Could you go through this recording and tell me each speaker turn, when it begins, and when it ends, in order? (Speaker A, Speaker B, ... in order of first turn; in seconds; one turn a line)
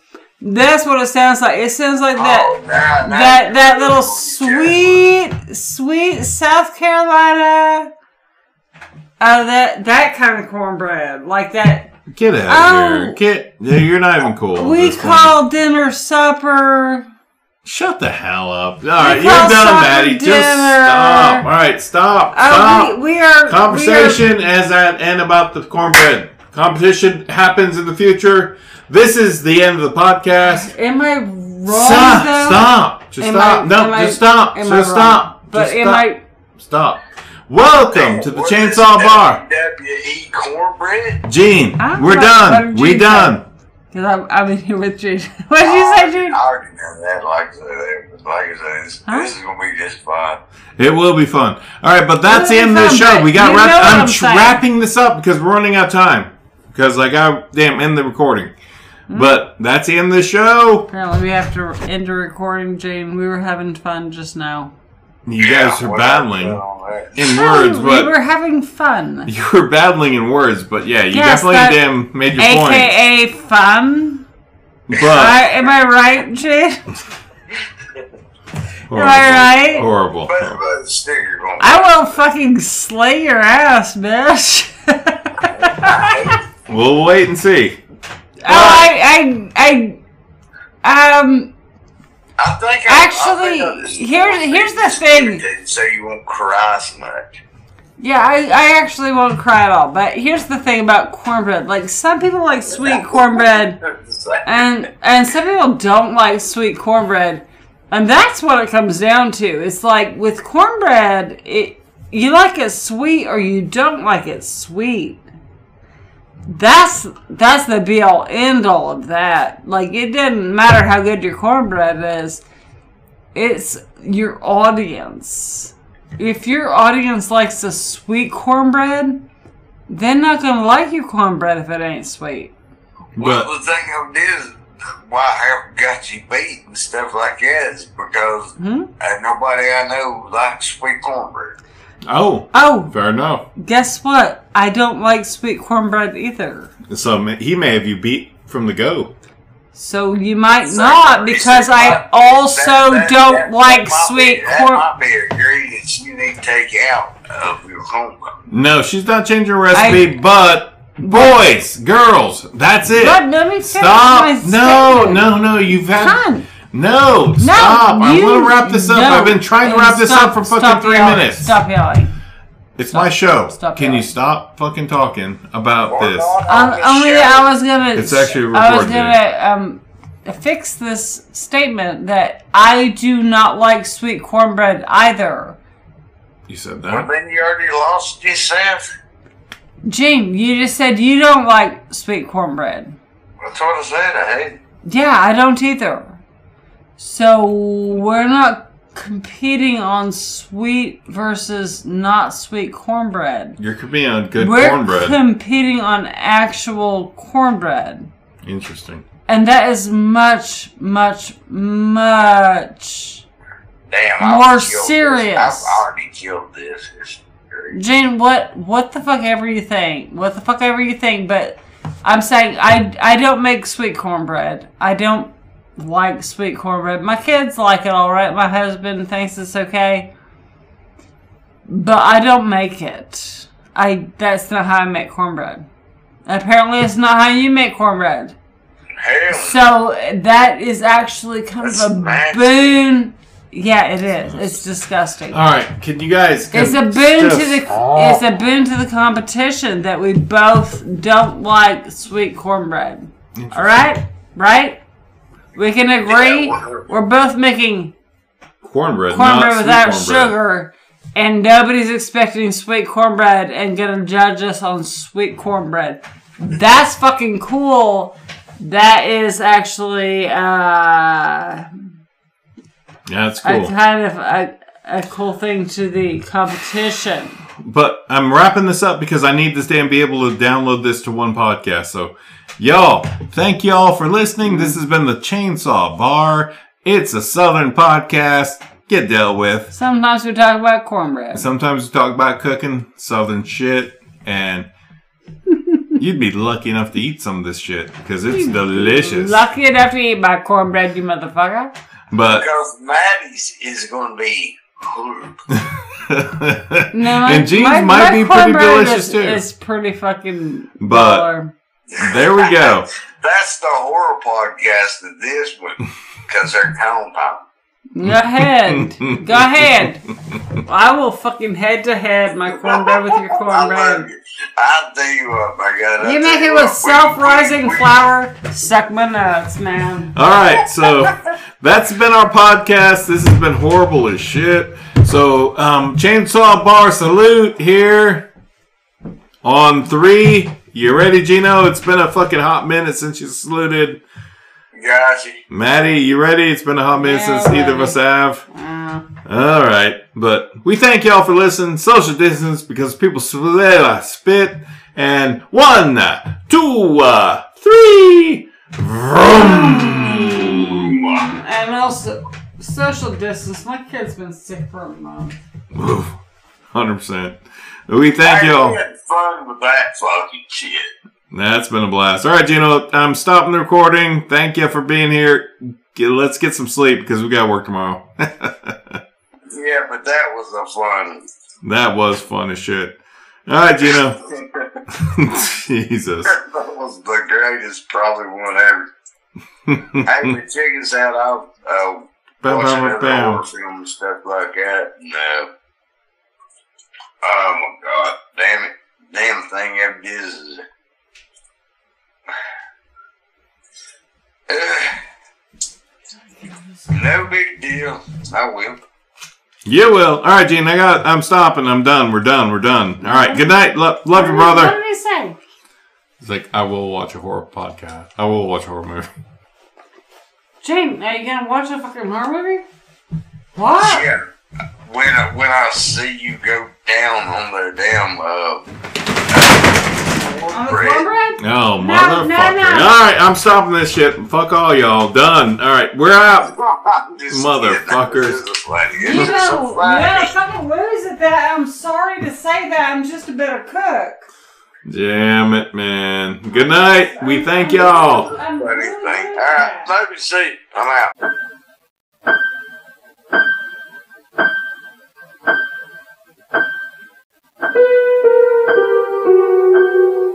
Speaker A: 0.4-7.9
Speaker B: 2.1-5.0
Speaker A: 9.2-11.9
Speaker C: 12.1-15.3
Speaker A: 12.5-13.2
Speaker A: 14.5-17.1
Speaker C: 17.6-30.7
Speaker A: 19.0-21.5
Speaker A: 22.3-24.2
Speaker A: 30.6-36.2
Speaker C: 31.7-39.4
Speaker B: 37.9-41.2
Speaker C: 41.2-43.4
Speaker A: 41.8-43.4
Speaker A: 43.9-46.4
Speaker B: 45.6-50.4
Speaker A: 49.1-49.3
Speaker C: 50.8-58.5
Speaker A: 52.2-54.6
Speaker A: 59.1-59.4
Speaker C: 59.1-60.9
Speaker A: 60.9-64.7
Speaker C: 65.2-66.6
Speaker B: 65.4-67.1
Speaker C: 67.1-68.1
Speaker A: 67.2-69.3
Speaker C: 69.3-72.9
Speaker A: 71.1-71.8
Speaker A: 72.3-74.2
Speaker C: 74.9-75.4
Speaker A: 75.0-76.9
Speaker C: 78.9-80.6
Speaker A: 78.9-79.8
Speaker B: 80.3-82.1
Speaker A: 81.6-86.3
Speaker B: 85.5-86.4
Speaker C: 86.7-87.8
Speaker A: 88.4-90.0
Speaker C: 88.5-88.9
Speaker A: 90.8-91.5
Speaker B: 92.4-97.4
Speaker A: 92.9-95.4
Speaker A: 98.0-103.8
Speaker B: 102.7-104.4
Speaker A: 104.4-115.2
Speaker A: 116.5-122.4
Speaker A: 123.3-129.2
Speaker A: 129.9-132.5
Speaker C: 133.2-133.5
Speaker B: 133.2-141.6
Speaker A: 138.6-138.9
Speaker C: 142.0-143.4
Speaker A: 142.5-142.9
Speaker A: 143.5-146.7
Speaker C: 146.9-149.1
Speaker A: 149.7-154.8
Speaker B: 150.7-158.3
Speaker C: 158.5-171.6
Speaker A: 159.7-160.1
Speaker A: 161.0-161.4
Speaker A: 162.9-165.3
Speaker A: 165.9-166.4
Speaker A: 167.4-172.1
Speaker C: 172.8-176.3
Speaker A: 172.9-174.1
Speaker B: 175.9-177.5
Speaker A: 176.5-185.6
Speaker C: 177.9-179.2
Speaker C: 186.5-187.1
Speaker B: 186.9-188.8
Speaker A: 189.8-193.0
Speaker B: 193.4-194.6
Speaker A: 194.8-196.2
Speaker A: 197.0-203.6
Speaker C: 203.6-205.2
Speaker A: 204.4-208.1
Speaker C: 208.4-209.0
Speaker A: 209.3-213.2
Speaker B: 213.9-217.8
Speaker A: 214.2-215.8
Speaker A: 217.7-230.1
Speaker A: 231.7-235.7
Speaker A: 236.2-238.3
Speaker B: 239.0-239.6
Speaker A: 239.3-245.4
Speaker B: 241.6-242.6
Speaker C: 245.3-248.3
Speaker A: 246.5-254.8
Speaker C: 253.3-253.9
Speaker A: 255.5-257.9
Speaker B: 256.0-256.9
Speaker C: 258.6-260.3
Speaker A: 259.1-271.8
Speaker C: 273.1-273.7
Speaker A: 273.4-277.4
Speaker C: 277.6-289.7
Speaker A: 284.4-284.8
Speaker A: 289.7-291.4
Speaker C: 291.3-294.7
Speaker C: 296.0-299.4
Speaker A: 298.3-301.7
Speaker C: 302.1-302.4
Speaker B: 302.3-305.4
Speaker C: 305.5-309.4
Speaker A: 306.9-311.5
Speaker C: 310.8-311.3
Speaker B: 311.9-317.4
Speaker C: 312.0-312.9
Speaker A: 317.9-320.0
Speaker C: 318.0-319.7
Speaker A: 320.6-324.1
Speaker B: 322.6-327.9
Speaker A: 326.0-330.1
Speaker C: 330.1-338.3
Speaker B: 330.8-331.1
Speaker C: 339.4-344.0
Speaker B: 344.7-345.4
Speaker C: 345.5-348.4
Speaker A: 346.9-348.0
Speaker A: 348.5-349.0
Speaker C: 349.2-360.9
Speaker A: 359.3-365.4
Speaker C: 365.7-366.2
Speaker C: 366.7-368.8
Speaker B: 368.2-370.9
Speaker C: 371.3-379.0
Speaker B: 379.5-381.2
Speaker C: 381.6-382.9
Speaker C: 383.5-384.2
Speaker B: 384.3-384.7
Speaker C: 384.9-386.3
Speaker B: 386.3-388.9
Speaker C: 389.6-390.4
Speaker B: 390.0-395.5
Speaker C: 392.4-393.4
Speaker B: 397.2-400.6
Speaker B: 404.5-405.0
Speaker A: 406.4-407.0
Speaker B: 406.9-408.8
Speaker C: 409.6-414.7
Speaker A: 413.0-413.4
Speaker A: 414.1-415.4
Speaker C: 416.2-419.1
Speaker A: 420.6-422.6
Speaker A: 423.5-424.1
Speaker B: 423.8-424.2
Speaker B: 424.8-428.7
Speaker B: 429.3-431.1
Speaker A: 430.5-432.9
Speaker C: 431.4-436.5
Speaker B: 436.5-440.3
Speaker C: 437.3-438.4
Speaker A: 439.0-444.2
Speaker C: 444.9-448.3
Speaker A: 446.5-449.9
Speaker B: 448.5-451.1